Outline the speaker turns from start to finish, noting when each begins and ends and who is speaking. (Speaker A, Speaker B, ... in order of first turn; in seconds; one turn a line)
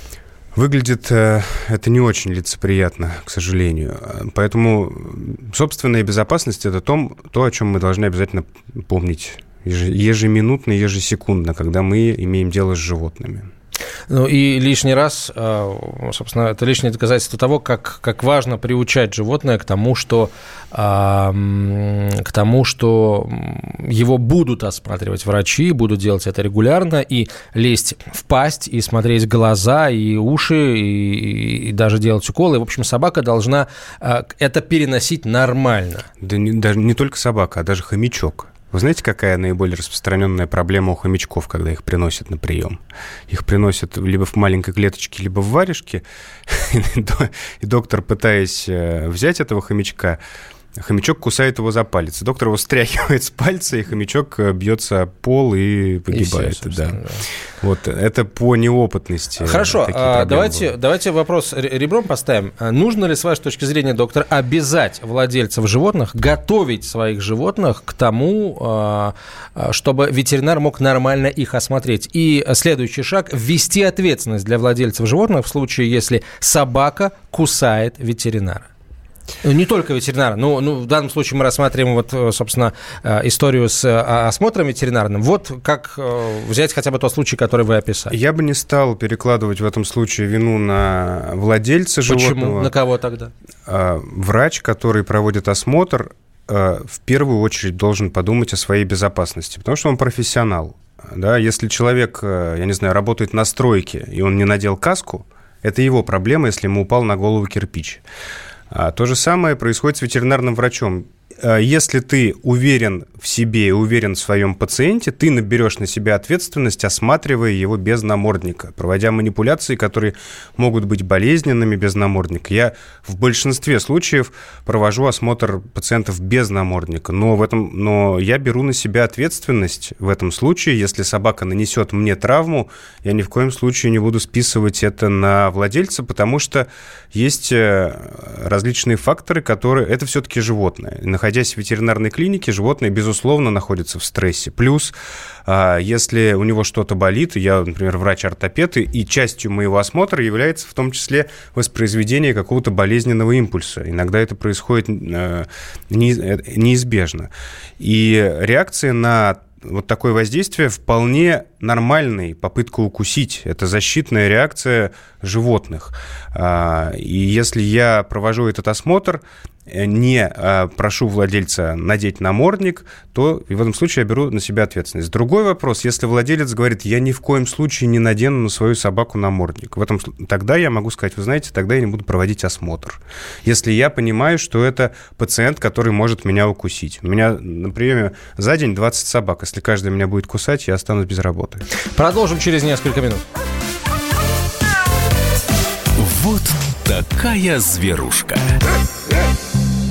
Speaker A: 0.5-13.5
Speaker B: 14.1-36.1
Speaker A: 36.2-50.2
Speaker A: 50.7-57.0
Speaker B: 56.1-57.2
Speaker A: 57.6-60.7
Speaker B: 59.4-78.7
Speaker B: 79.4-88.1
Speaker A: 88.1-92.7
Speaker B: 92.1-93.3
Speaker A: 93.7-108.0
Speaker A: 108.7-144.9
Speaker A: 145.4-191.6
Speaker B: 191.9-193.2
Speaker C: 196.0-198.6